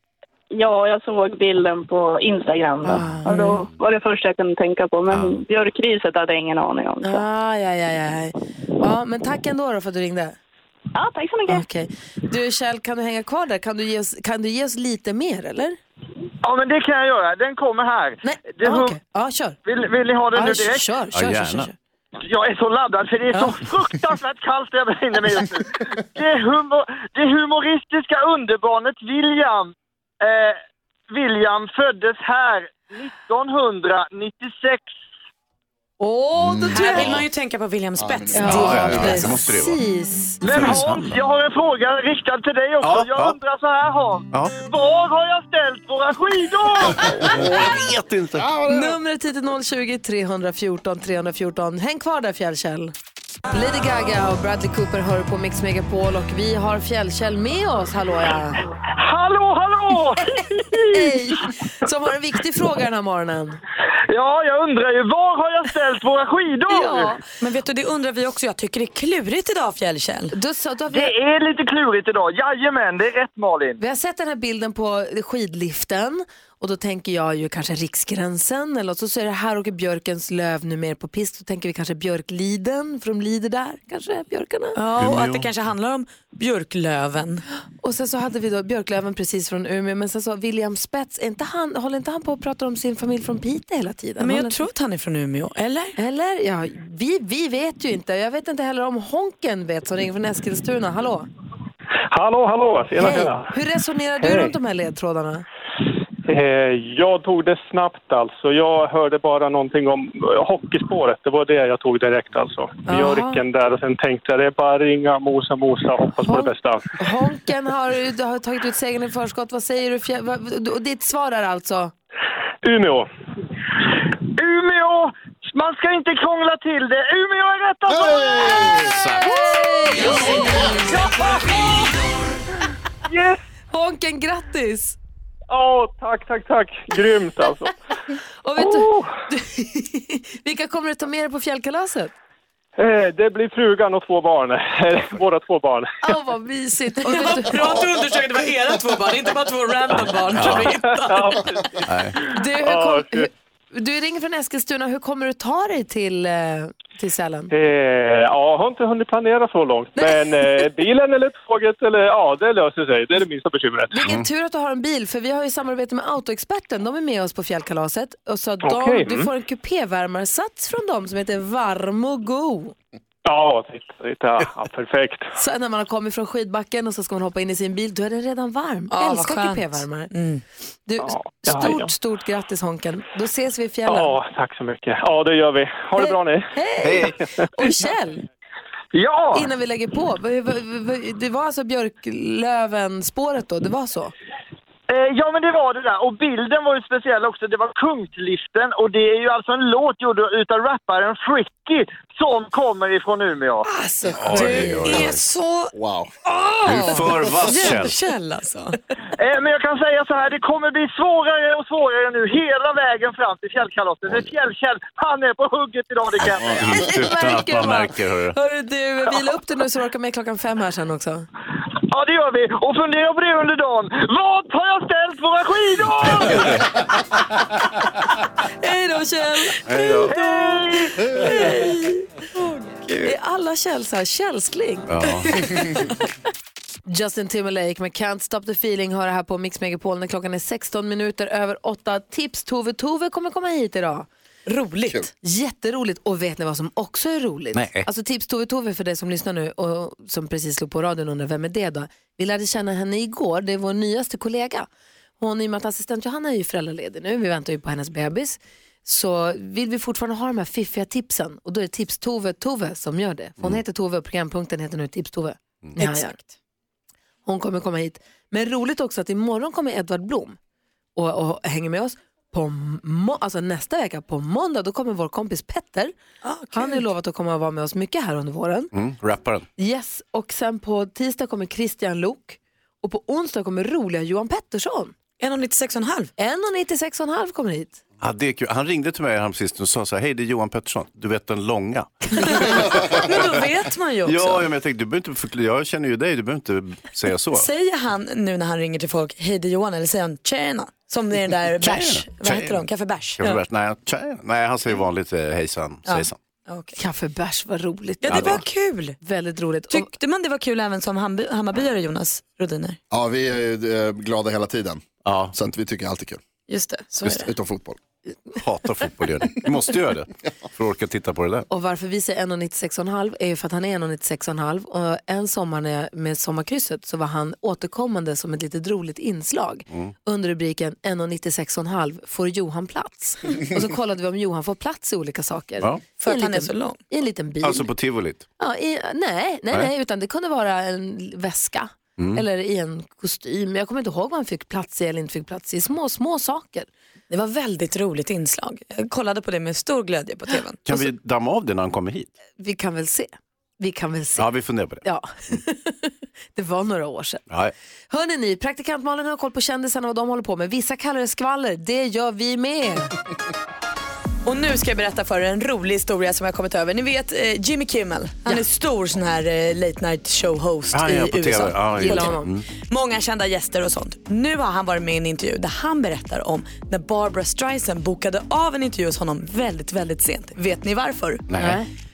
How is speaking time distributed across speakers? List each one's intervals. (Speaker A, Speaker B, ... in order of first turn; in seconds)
Speaker A: 0.5-7.2, 10.9-11.6
Speaker B: 2.8-3.6, 7.0-10.4, 11.5-15.8, 18.2-19.6, 20.3-21.7, 36.0-37.2, 38.3-40.8, 48.6-52.9, 53.5-58.6, 60.9-63.6, 66.7-67.2, 70.3-71.1, 73.8-84.8, 87.8-94.6, 96.0-101.3, 103.0-105.4, 112.9-113.4, 116.2-121.9, 129.1-130.9, 133.7-134.9, 138.4-142.1, 146.0-147.8, 152.2-157.5, 160.0-160.5, 163.9-172.7, 175.3-180.1, 180.8-184.2, 186.0-188.2, 189.3-194.1, 216.6-221.3, 228.6-232.2, 233.0-235.6, 236.8-244.1, 245.2-254.7, 255.2-266.1, 267.2-270.4, 270.9-275.9, 276.5-278.7, 279.6-284.9, 286.2-287.8, 306.8-308.4, 309.0-309.9, 321.5-337.7, 338.4-346.7, 352.4-354.3, 354.8-357.2, 357.9-362.9, 371.8-372.3, 381.4-381.6
Speaker C: 5.1-5.4, 21.1-21.7, 38.4-39.8, 40.5-41.2, 42.8-43.4, 47.2-48.5, 85.0-85.5, 128.8-129.3, 150.3-150.7, 151.9-152.1, 164.0-164.2, 204.2-205.2, 206.7-207.9, 216.2-218.3, 226.2-226.6, 229.6-230.2, 232.8-233.1, 234.9-235.4, 247.5-247.8, 278.7-279.5, 288.0-293.2, 294.0-297.5, 301.6-302.6, 303.2-306.2, 308.1-308.4, 315.0-315.4, 318.4-321.5, 337.4-338.2, 342.0-342.2, 350.6-352.1, 354.2-354.8, 370.7-372.4, 381.3-381.6
Speaker D: 16.4-18.9, 19.6-20.9, 22.3-30.6, 31.1-34.9, 40.4-47.1, 59.0-61.0, 64.1-67.2, 70.9-73.8, 124.4-128.9, 131.1-131.6, 188.9-189.5, 194.9-203.6, 209.2-216.7, 221.9-226.5, 230.1-231.0
Speaker E: 36.4-36.7, 38.0-38.4, 48.5-48.8, 127.9-128.9, 205.7-206.1, 312.9-316.2, 317.0-317.8
Speaker F: 36.7-39.3, 67.4-70.3, 84.7-87.4, 94.2-96.0, 147.0-151.4, 178.9-180.4, 203.7-205.7, 206.2-208.8, 244.5-245.1, 265.8-266.2, 276.2-276.8, 285.2-286.1, 292.3-294.5, 297.3-303.3, 305.9-306.8, 308.0-309.0, 309.7-312.8, 316.5-317.3, 336.0-336.8, 347.1-350.7, 364.2-381.3
Speaker G: 102.1-103.5, 104.2-104.5, 106.3-116.9, 122.6-123.1, 133.1-133.4, 135.5-137.7, 138.6-139.1, 142.8-145.9, 150.5-153.3, 157.5-163.9, 168.6-169.3, 173.2-175.3, 181.0-181.9, 183.8-187.1